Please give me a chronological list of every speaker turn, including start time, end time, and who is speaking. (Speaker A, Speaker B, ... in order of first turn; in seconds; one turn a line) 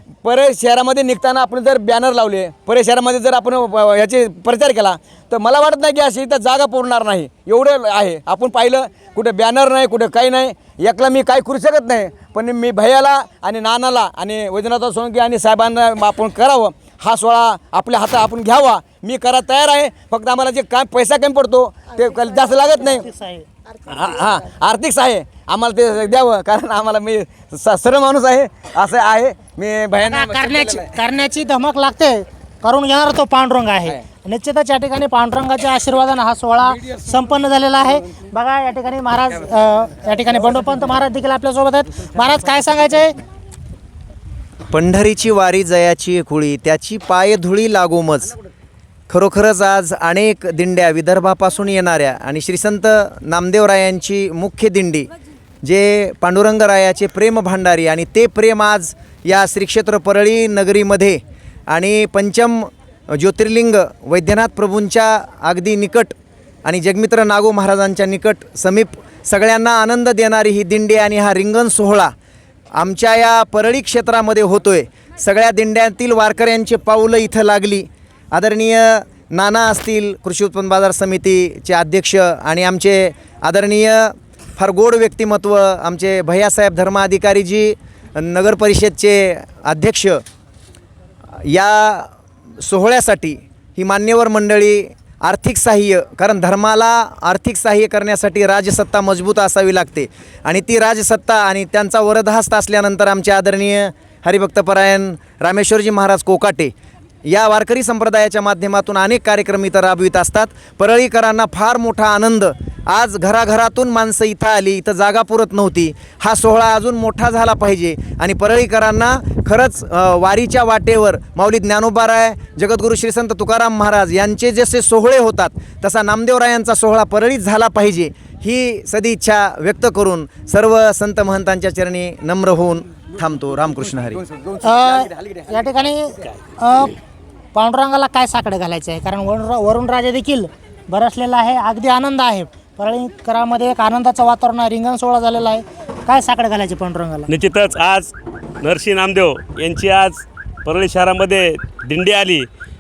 Speaker A: 0.2-23.1
Speaker B: 22.8-23.5
Speaker A: 23.9-30.9
Speaker B: 30.1-43.2
Speaker C: 44.7-48.3
Speaker C: 49.1-55.1
Speaker C: 55.6-72.1
Speaker C: 72.8-90.2
Speaker C: 91.5-92.1
Speaker C: 92.6-106.7
Speaker C: 107.3-134.2
Speaker B: 134.6-136.9
Speaker B: 137.5-147.3
Speaker D: 147.3-148.1
Speaker D: 148.6-152.5